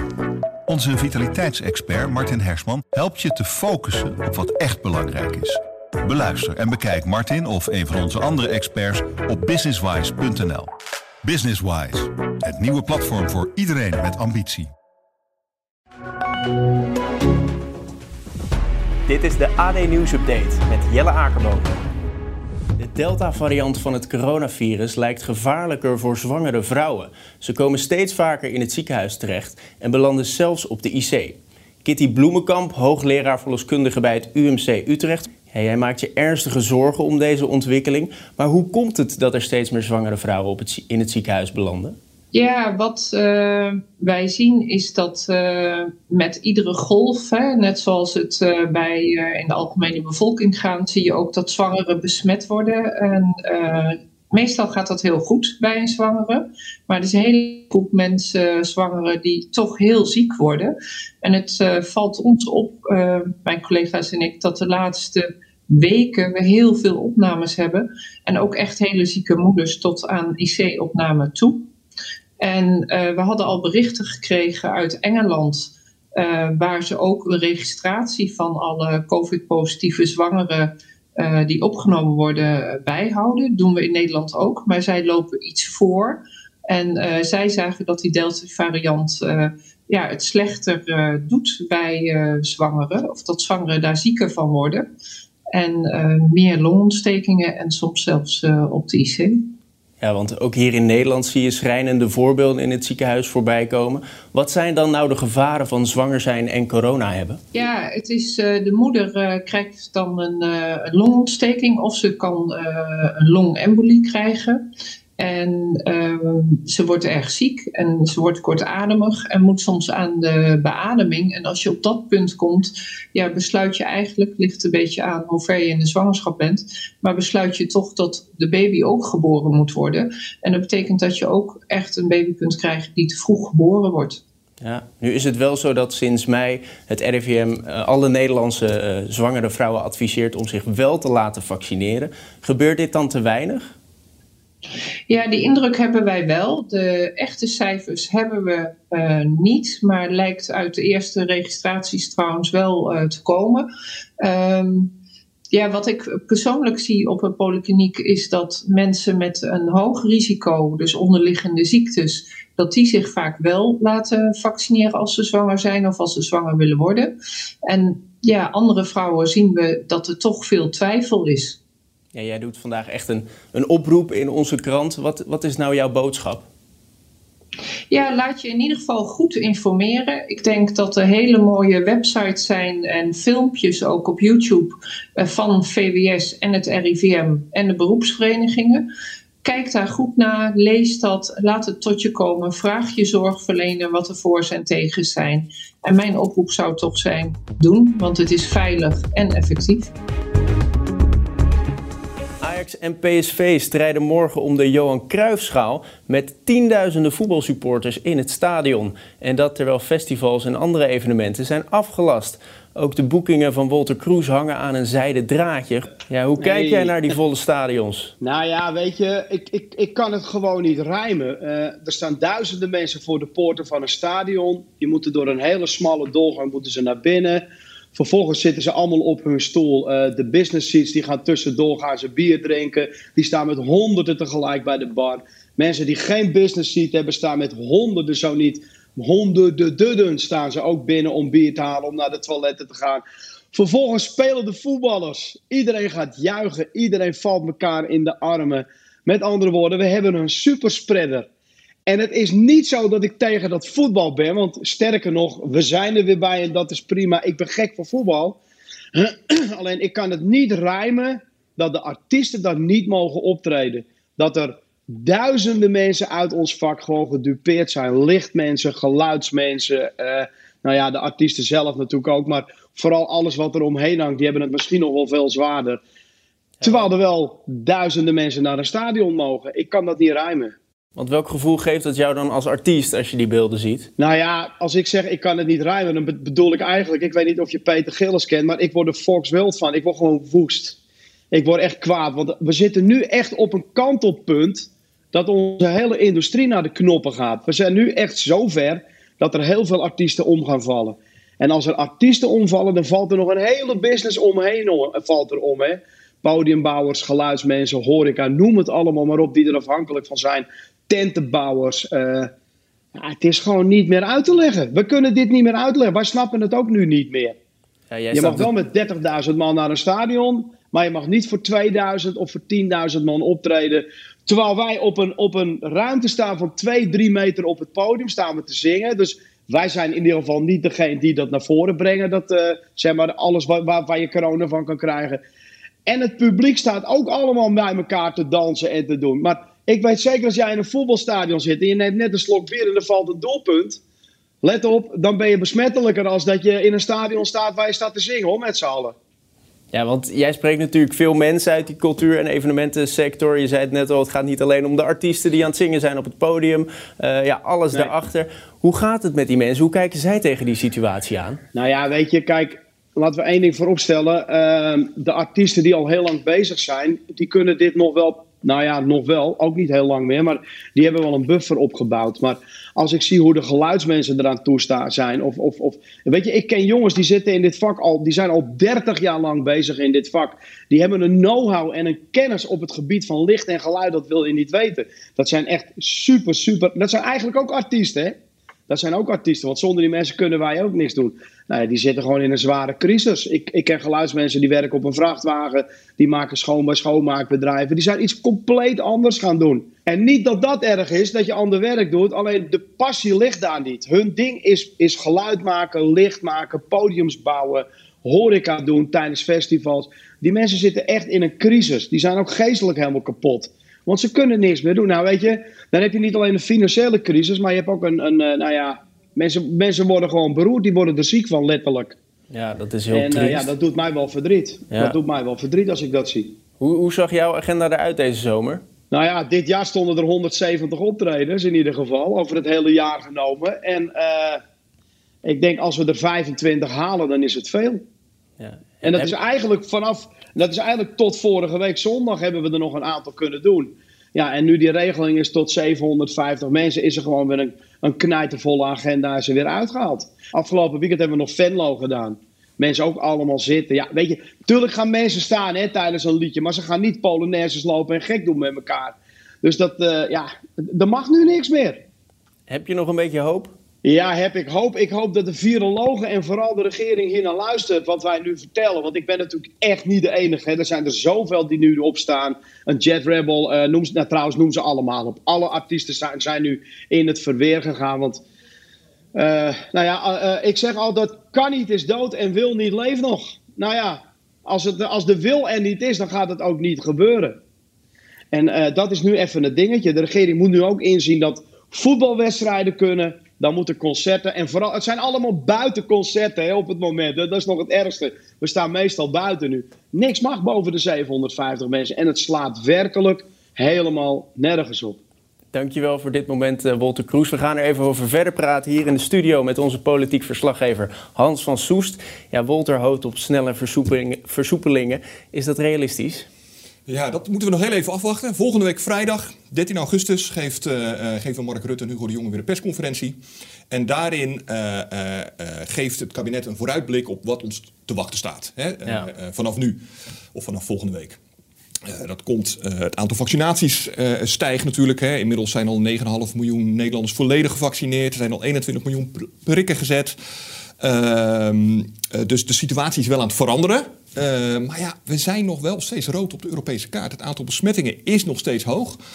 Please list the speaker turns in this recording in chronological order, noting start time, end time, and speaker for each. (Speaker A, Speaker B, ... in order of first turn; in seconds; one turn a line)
Speaker A: 0.7-10.7
Speaker A: 11.2-14.7
Speaker B: 19.1-21.7
Speaker B: 22.8-42.0
Speaker C: 42.3-71.6
Speaker C: 72.4-94.9
Speaker C: 95.5-99.5
Speaker B: 100.0-107.4
Speaker C: 107.5-114.6
Speaker C: 115.2-134.2
Speaker B: 134.6-143.8
Speaker C: 145.1-153.7
Speaker C: 154.2-154.9
Speaker C: 155.5-167.1
Speaker C: 167.7-171.6
Speaker B: 172.1-176.5
Speaker C: 177.9-188.8
Speaker C: 189.4-199.9
Speaker B: 202.4-218.1
Speaker D: 216.4-217.0
Speaker D: 218.2-251.3
Speaker D: 251.9-258.4
Speaker D: 258.9-275.8
Speaker B: 276.6-276.9
Speaker D: 276.6-280.6
Speaker B: 281.0-283.9
Speaker D: 284.0-290.8
Speaker D: 291.3-312.3
Speaker D: 313.0-317.4
Speaker B: 317.9-318.5
Speaker D: 318.1-335.2
Speaker D: 335.9-343.8
Speaker D: 344.4-348.9
Speaker B: 349.7-361.4
Speaker D: 361.5-388.2
Speaker D: 388.7-422.0
Speaker B: 422.3-423.5
Speaker D: 422.9-426.4
Speaker B: 424.7-425.0
Speaker B: 426.6-428.6
Speaker D: 428.9-434.4
Speaker D: 435.2-437.8
Speaker B: 438.4-439.1
Speaker D: 438.9-461.8
Speaker B: 462.5-463.5
Speaker D: 463.8-478.2
Speaker D: 479.1-487.4
Speaker D: 488.3-505.0
Speaker B: 505.5-516.3
Speaker E: 516.9-523.2
Speaker E: 523.7-529.8
Speaker E: 530.3-531.2
Speaker E: 531.9-540.2
Speaker E: 540.8-549.0